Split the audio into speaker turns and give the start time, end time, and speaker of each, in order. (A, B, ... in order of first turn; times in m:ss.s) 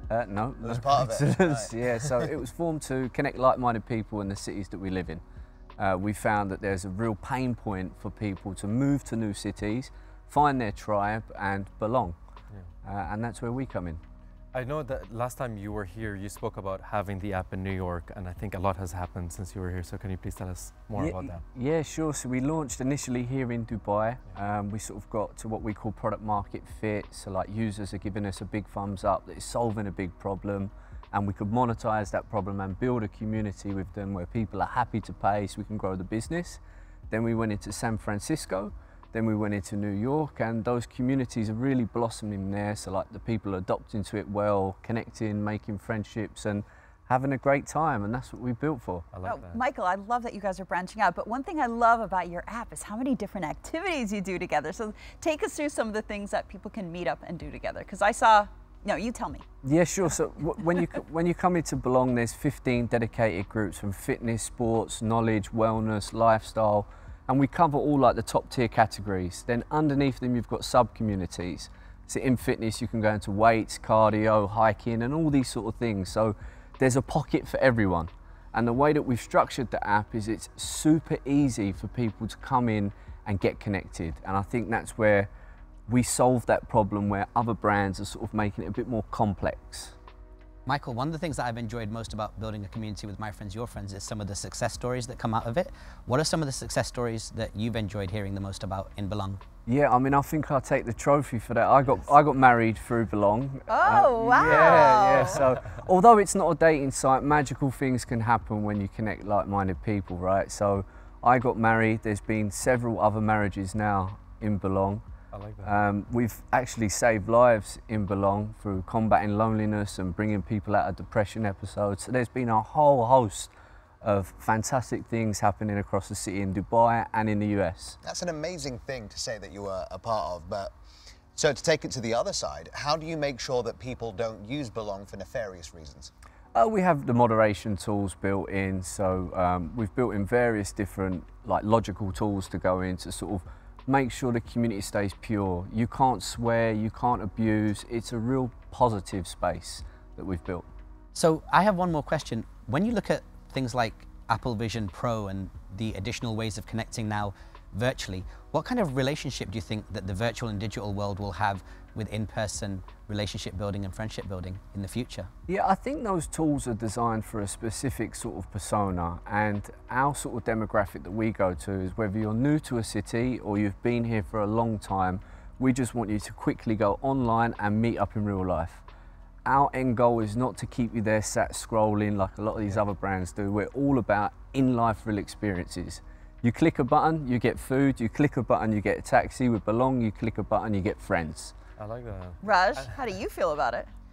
0:00.1-0:05.2 A
0:00.6-0:01.7 B
0:05.8-0:12.2 A
0:12.8-0:14.0 A
0:14.5-0:21.4 C
0:21.0-0:49.1 A
0:49.1-0:49.6 C
0:49.2-0:59.4 D
0:59.6-1:25.3 A
1:25.9-1:29.9 A
1:30.6-1:39.4 E
1:39.6-1:55.0 A
1:43.7-1:45.4 D
1:55.3-1:55.8 C
1:55.6-2:08.0 A
2:08.0-2:10.7 B
2:11.3-2:16.1 B
2:16.5-2:30.7 A
2:31.1-2:45.3 E
2:45.5-2:58.8 A
2:59.4-3:11.5 A
3:11.8-3:12.9 C
3:12.4-3:13.9 D